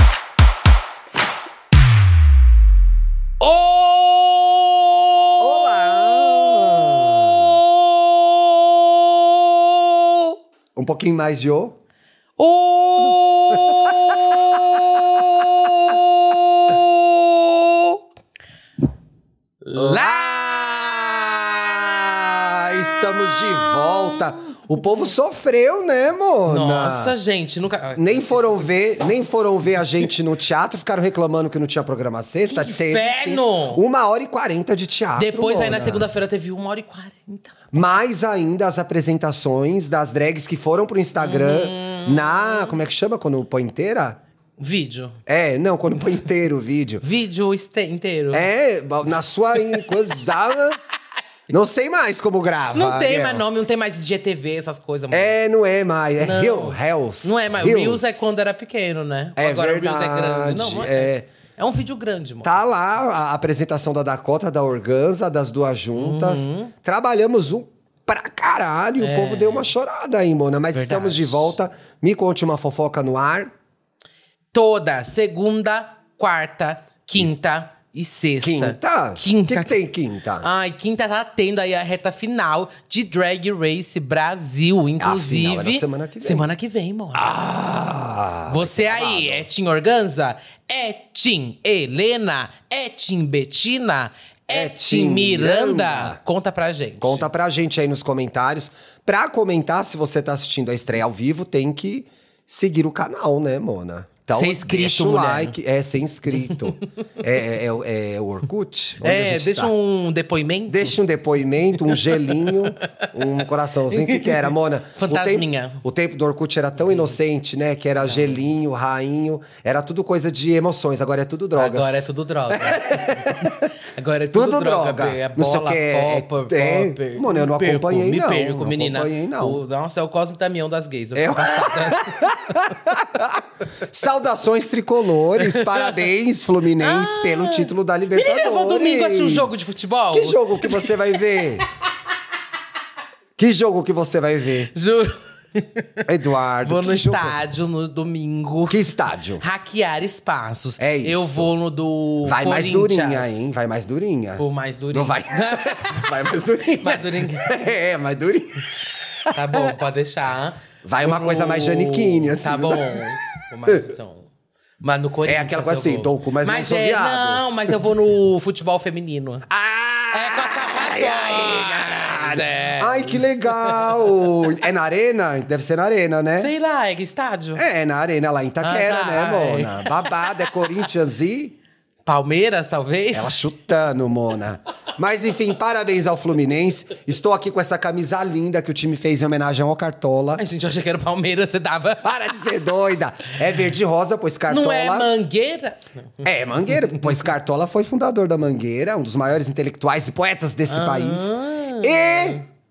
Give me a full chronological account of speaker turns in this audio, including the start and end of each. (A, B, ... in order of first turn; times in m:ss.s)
0:03.4-0:10.4 A
0:05.4-0:07.6 B
0:10.7-0:11.8 B
0:12.4-0:18.0 A
0:13.5-0:15.7 B
0:19.6-0:20.5 A
0:19.7-0:27.1 B
0:22.7-0:24.4 A
0:26.5-0:29.0 A
0:28.0-0:36.1 B
0:32.5-0:33.8 A
0:35.2-0:37.6 A
0:37.7-0:44.2 B
0:41.2-0:42.7 A
0:44.6-0:45.2 A
0:45.2-0:47.0 B
0:47.0-0:48.5 A
0:48.3-0:50.8 B
0:51.5-0:53.4 B
0:52.7-0:55.3 A
0:55.1-0:58.3 B
0:56.2-1:02.5 A
0:59.4-1:01.3 B
1:02.4-1:13.5 B
1:06.0-1:06.7 A
1:09.0-1:09.7 A
1:10.7-1:11.5 A
1:14.5-1:19.8 A
1:18.4-1:20.4 B
1:20.4-1:27.4 A
1:25.0-1:26.4 B
1:27.2-1:29.4 B
1:28.5-1:37.3 A
1:34.5-1:36.2 B
1:37.0-1:49.7 B
1:44.3-1:45.6 A
1:49.0-1:51.0 A
1:50.7-2:03.7 B
1:51.8-1:53.1 A
1:53.9-1:55.8 A
2:01.6-2:12.4 A
2:04.3-2:09.6 B
2:11.2-2:19.6 B
2:15.4-2:16.0 A
2:16.8-2:21.4 A
2:20.1-2:21.6 B
2:23.4-2:24.7 B
2:24.7-2:26.1 A
2:26.1-2:27.4 B
2:26.6-2:33.5 A
2:28.7-2:29.4 B
2:30.8-2:31.5 B
2:32.2-2:39.6 B
2:34.4-2:37.5 A
2:39.3-2:44.3 A
2:40.8-2:43.1 B
2:44.8-2:49.5 A
2:45.2-2:47.4 B
2:49.5-2:56.5 B
2:50.1-2:54.1 A
2:56.4-2:57.6 A
2:57.6-3:01.6 B
2:58.6-3:00.8 A
3:02.1-3:03.5 A
3:03.1-3:10.4 B
3:10.4-3:12.4 A
3:12.0-3:15.1 B
3:14.5-3:16.3 A
3:16.2-3:22.4 B
3:20.7-3:22.4 A